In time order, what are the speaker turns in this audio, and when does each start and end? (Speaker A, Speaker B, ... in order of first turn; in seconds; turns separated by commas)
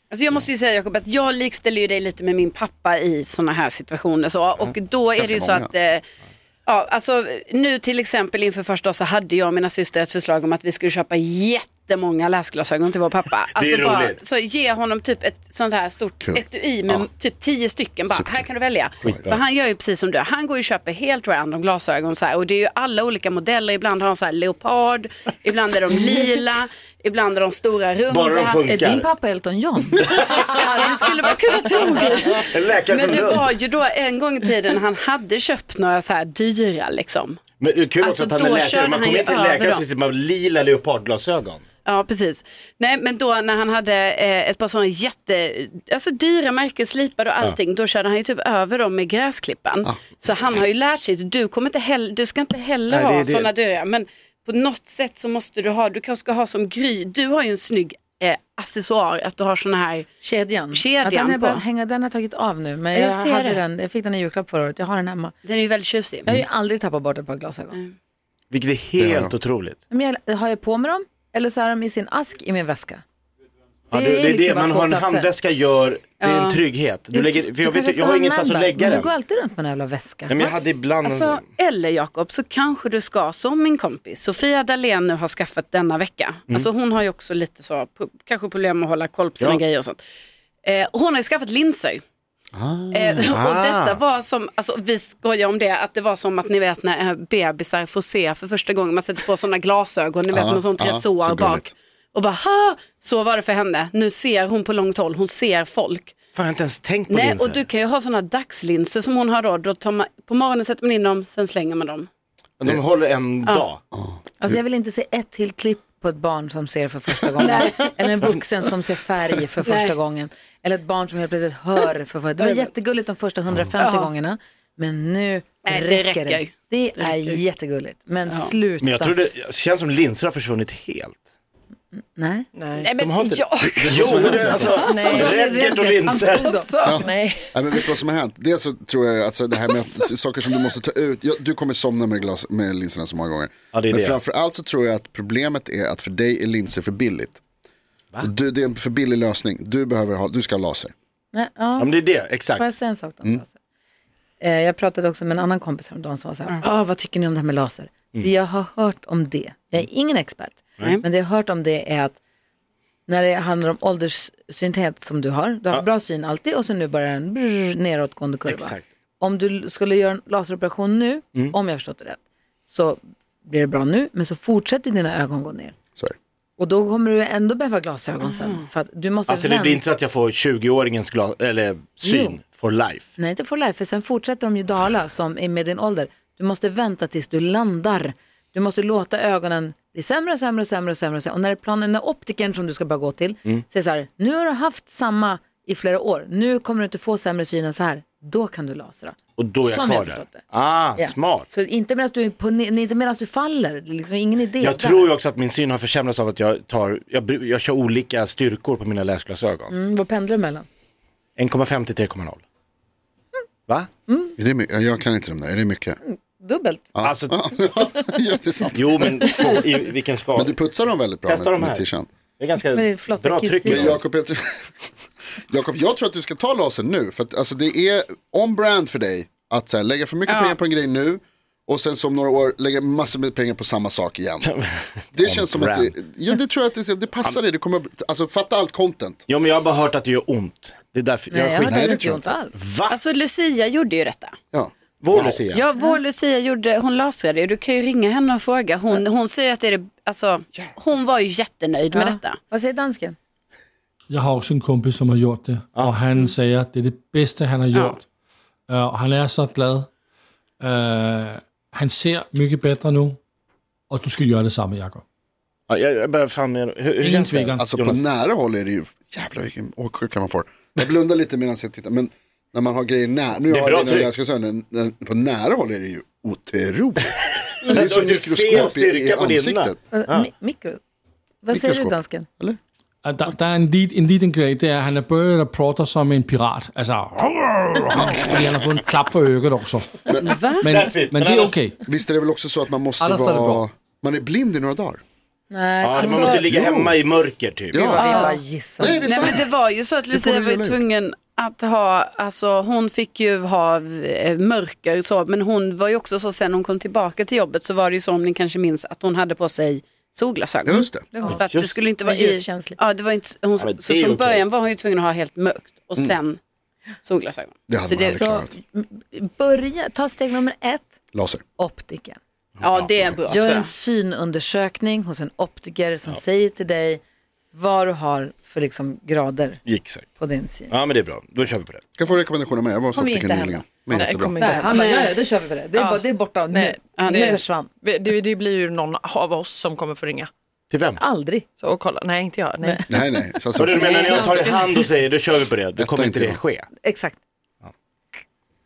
Speaker A: 0.1-6.0, Speaker B: 5.2-5.7, Speaker A: 6.7-28.6, Speaker C: 13.5-14.2, Speaker B: 18.1-18.5, Speaker C: 19.0-19.3, Speaker B: 19.0-19.3, Speaker C: 28.1-29.1, Speaker D: 28.7-30.1, Speaker C: 30.1-30.5, Speaker A: 30.4-37.4, Speaker C: 32.5-33.5, Speaker C: 37.6-41.6, Speaker A: 38.0-39.8, Speaker A: 41.8-60.1, Speaker B: 49.8-50.1, Speaker C: 52.9-53.5, Speaker D: 60.2-65.3, Speaker A: 60.7-61.6, Speaker A: 62.9-63.6, Speaker A: 65.4-66.3, Speaker D: 66.2-67.8, Speaker C: 68.5-69.8, Speaker B: 69.0-69.3, Speaker D: 69.9-73.0, Speaker C: 73.9-79.1, Speaker D: 73.9-75.3, Speaker A: 76.2-76.6, Speaker D: 77.1-80.4, Speaker C: 80.3-81.5, Speaker A: 81.0-90.0, Speaker A: 90.6-92.0, Speaker B: 92.5-93.2, Speaker A: 92.9-106.1, Speaker C: 93.2-94.0, Speaker B: 100.3-101.7, Speaker C: 106.3-107.6, Speaker A: 107.1-112.1, Speaker C: 112.6-113.8, Speaker B: 113.9-114.6, Speaker D: 114.4-129.1, Speaker A: 117.4-117.8, Speaker A: 119.7-119.9, Speaker A: 122.4-122.7, Speaker A: 123.8-124.1, Speaker A: 125.7-127.4, Speaker C: 128.8-131.2, Speaker D: 131.9-132.5, Speaker E: 132.5-132.9, Speaker A: 132.8-134.6, Speaker C: 133.0-136.6, Speaker B: 133.8-134.8, Speaker D: 134.4-137.0, Speaker E: 134.8-135.4, Speaker B: 136.8-147.4, Speaker E: 136.8-137.8, Speaker C: 143.7-144.2, Speaker B: 148.2-150.9, Speaker D: 151.3-151.9, Speaker C: 151.8-152.7, Speaker D: 152.6-153.5, Speaker D: 154.4-162.2, Speaker D: 163.1-175.7, Speaker C: 168.4-168.8, Speaker D: 176.6-179.8, Speaker A: 178.2-178.6, Speaker C: 179.3-183.1, Speaker D: 182.0-182.4, Speaker D: 183.2-200.4, Speaker C: 199.4-201.5, Speaker D: 201.0-205.1, Speaker C: 204.6-209.7, Speaker D: 209.7-210.7, Speaker C: 211.4-212.4, Speaker D: 214.1-214.3, Speaker B: 214.4-216.0, Speaker D: 216.0-216.9, Speaker B: 216.9-219.6, Speaker C: 217.0-217.4, Speaker C: 218.8-220.6, Speaker B: 220.3-222.1, Speaker C: 221.2-221.8, Speaker C: 222.4-224.0, Speaker D: 222.7-224.0, Speaker B: 223.6-224.7, Speaker B: 225.5-234.5, Speaker A: 230.3-230.6, Speaker C: 234.4-235.9, Speaker B: 235.2-239.2, Speaker C: 239.3-243.0, Speaker D: 241.3-242.6, Speaker B: 241.6-242.3, Speaker A: 242.9-244.3, Speaker B: 244.5-245.4, Speaker C: 245.0-245.6, Speaker A: 245.1-252.4, Speaker D: 251.9-253.2, Speaker F: 254.1-258.0, Speaker A: 257.7-258.0, Speaker F: 258.7-259.9, Speaker F: 260.6-263.2, Speaker F: 263.9-265.0, Speaker C: 265.7-268.0, Speaker F: 267.0-267.6, Speaker B: 267.6-279.8, Speaker C: 273.5-274.1, Speaker C: 277.6-280.3, Speaker D: 279.9-280.8, Speaker D: 281.4-282.3, Speaker B: 281.5-282.6, Speaker F: 283.1-290.0, Speaker B: 288.0-288.5, Speaker A: 290.2-290.7, Speaker C: 290.6-291.5, Speaker F: 290.6-291.7, Speaker B: 291.8-295.0, Speaker F: 293.0-293.6, Speaker D: 295.5-296.4, Speaker C: 295.8-297.9, Speaker B: 296.2-297.0, Speaker B: 297.7-298.1, Speaker D: 297.7-299.3, Speaker A: 298.0-298.4, Speaker B: 298.8-299.5, Speaker A: 299.0-316.4, Speaker B: 300.1-300.8, Speaker B: 310.6-311.1, Speaker D: 311.1-311.5, Speaker C: 311.4-311.8, Speaker D: 312.0-312.8, Speaker C: 313.6-314.4, Speaker A: 317.0-318.2, Speaker B: 317.7-318.6, Speaker D: 318.1-321.0, Speaker B: 321.1-321.4, Speaker D: 321.6-322.2, Speaker A: 322.6-323.7, Speaker D: 323.3-327.0, Speaker D: 327.5-329.6, Speaker C: 329.6-330.0, Speaker D: 330.2-330.7, Speaker C: 330.7-331.8, Speaker B: 332.0-334.6, Speaker D: 332.9-333.6, Speaker E: 333.9-335.1, Speaker D: 334.4-337.7, Speaker A: 334.6-335.1, Speaker E: 335.7-340.3, Speaker A: 336.9-337.4, Speaker C: 340.7-341.0, Speaker D: 341.0-341.4, Speaker E: 341.6-342.9, Speaker D: 342.6-343.1, Speaker B: 342.9-344.2, Speaker C: 343.6-346.7, Speaker D: 343.8-344.7, Speaker E: 343.9-344.5, Speaker B: 345.8-346.4, Speaker D: 346.8-347.2